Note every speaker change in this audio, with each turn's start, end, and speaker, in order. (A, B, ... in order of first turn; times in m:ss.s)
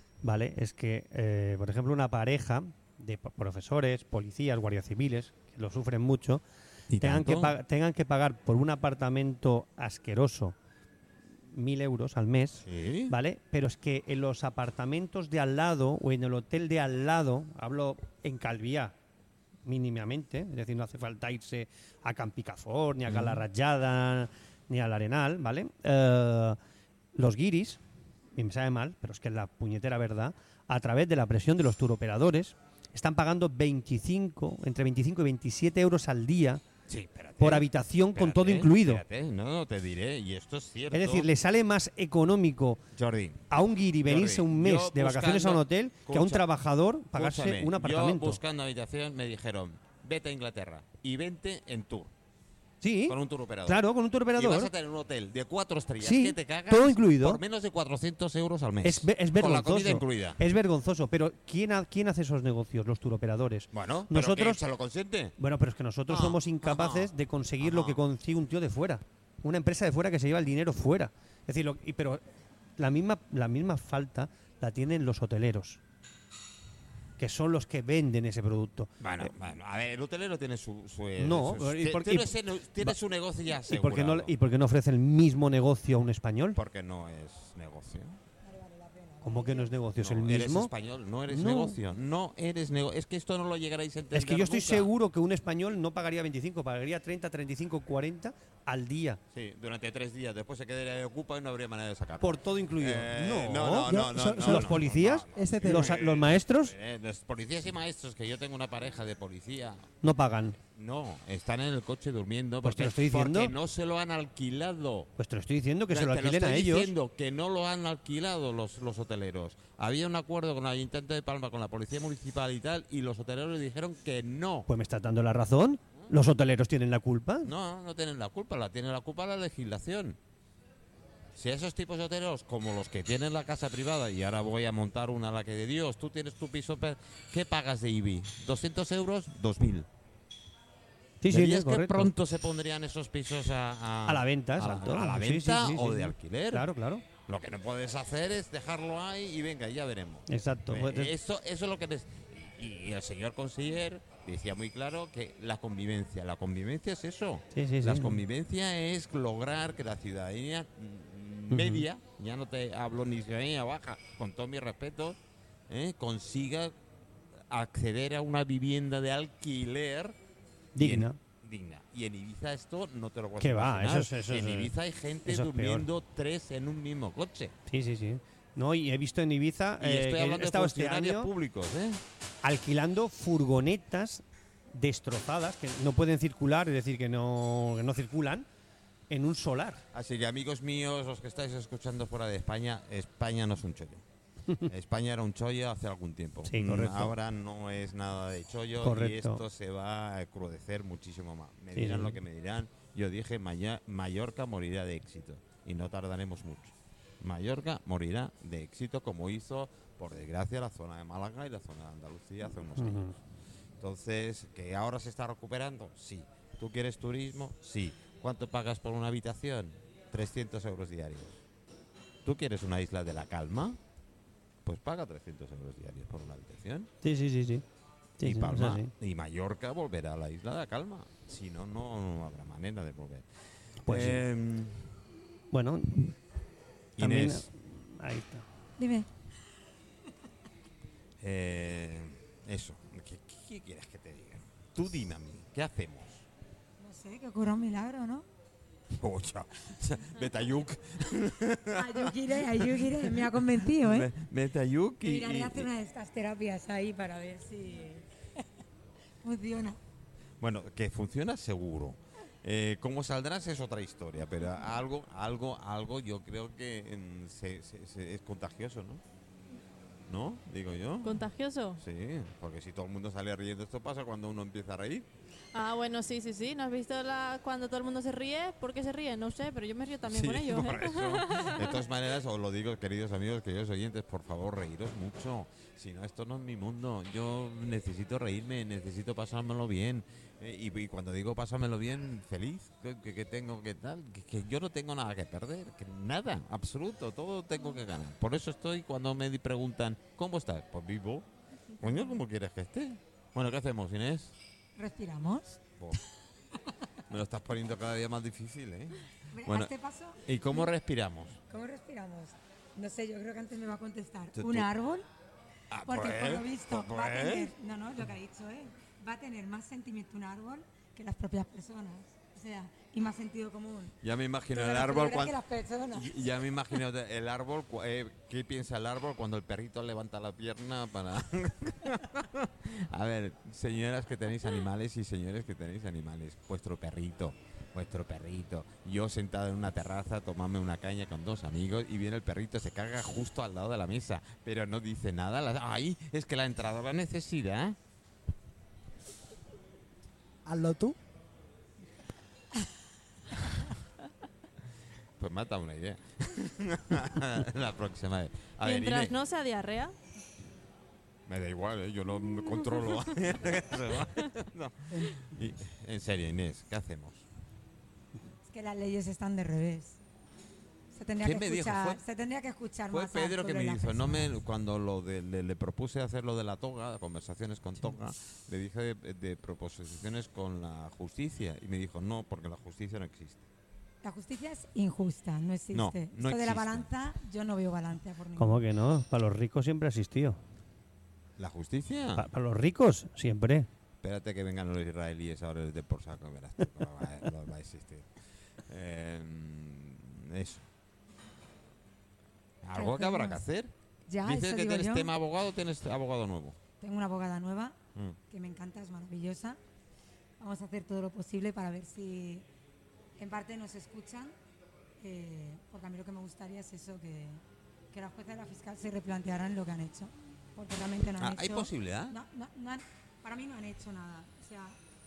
0:00.2-0:06.4 A
0:06.9-0:07.5 B
0:07.0-0:10.6 A
0:11.5-0:18.9 A
0:12.6-0:13.1 B
0:19.6-0:26.6 A
0:23.1-0:23.4 B
0:27.1-0:27.8 A
0:28.4-0:36.6 A
0:36.9-0:41.3 B
0:37.4-0:39.0 A
0:40.9-0:42.8 A
0:42.9-0:43.5 B
0:43.5-0:48.4 A
0:44.0-0:46.4 B
0:47.1-0:52.1 B
0:52.8-0:54.7 A
0:53.1-0:53.8 B
0:54.3-1:00.4 B
0:56.0-0:57.4 A
0:58.8-1:04.6 A
1:03.7-1:05.4 B
1:05.4-1:12.2 A
1:06.1-1:07.1 B
1:07.6-1:08.0 B
1:12.8-1:15.8 A
1:17.2-1:19.3 A
1:19.0-1:24.3 B
1:21.2-1:23.0 A
1:23.6-1:26.6 A
1:26.5-1:28.2 B
1:28.4-1:29.7 C
1:29.2-1:30.7 A
1:30.0-1:34.9 B
1:31.3-1:31.8 A
1:34.1-1:39.2 A
1:39.3-1:49.9 B
1:42.2-1:46.7 A
1:43.9-1:46.0 D
1:50.0-1:50.6 A
1:50.7-1:55.1 B
1:52.6-1:53.5 A
1:55.2-1:56.9 A
1:55.9-2:04.7 B
2:04.7-2:07.5 A
2:07.4-2:10.2 B
2:11.4-2:19.9 B
2:21.2-2:22.1 A
2:21.3-2:26.7 B
2:24.1-2:27.0 A
2:27.2-2:46.7 B
2:30.3-2:31.1 A
2:37.5-2:38.2 A
2:41.5-2:41.8 A
2:47.5-2:50.2 B
2:50.7-2:51.2 A
2:50.8-2:57.6 B
2:53.4-2:54.7 A
2:55.2-2:55.8 A
2:57.7-3:01.3 A
2:59.8-3:02.0 B
3:02.4-3:08.4 A
3:09.1-3:09.8 A
3:09.9-3:14.0 B
3:14.6-3:33.1 B
3:16.5-3:17.1 A
3:18.8-3:19.4 A
3:21.8-3:22.2 A
3:32.8-3:33.1 A
3:33.8-3:41.4 B
3:42.2-3:43.8 B
3:44.6-3:46.9 B
3:47.0-3:47.6 A
3:48.2-3:48.9 A
3:48.2-3:53.2 B
3:53.8-3:54.2 A
3:53.8-3:55.0 B
3:55.5-3:56.1 A
3:57.0-3:57.5 B
3:57.0-3:58.4 A
3:58.8-3:59.1 C
4:01.2-4:06.2 B
4:06.8-4:08.3 C
4:08.9-4:15.7 B
4:11.8-4:14.1 C
4:15.0-4:18.0 C
4:19.2-4:19.8 C
4:20.4-4:29.0 B
4:30.1-4:31.2 B
4:31.0-4:31.8 E
4:31.8-4:35.1 B
4:35.5-4:41.8 E
4:40.1-5:01.2 B
5:01.8-5:04.3 B
5:04.8-5:05.6 C
5:07.1-5:09.7 B
5:09.3-5:10.7 C
5:10.2-5:11.4 B
5:11.5-5:15.0 C
5:14.4-5:14.7 B
5:15.7-5:17.5 B
5:15.8-5:24.0 C
5:24.0-5:25.4 B
5:24.5-5:26.3 C
5:25.9-5:47.8 B
5:50.4-5:51.0 D
5:55.2-5:59.1 B
5:58.6-5:59.9 E
6:01.3-6:07.2 B
6:08.4-6:10.0 C
6:10.9-6:14.3 C
6:11.2-6:12.0 B
6:12.9-6:23.4 B
6:24.0-6:28.6 C
6:25.7-6:26.9 B
6:28.4-6:30.4 A
6:31.4-6:32.2 B
6:32.2-6:33.7 A
6:34.0-6:38.1 B
6:38.7-6:40.6 B
6:42.6-6:43.7 B
6:42.7-6:43.4 C
6:44.1-6:45.1 C
6:44.2-6:46.6 B
6:46.8-6:47.8 C
6:48.3-6:49.6 C
6:50.4-6:52.5 C
6:53.2-6:54.3 C
6:55.0-7:04.8 C
7:01.2-7:02.2 B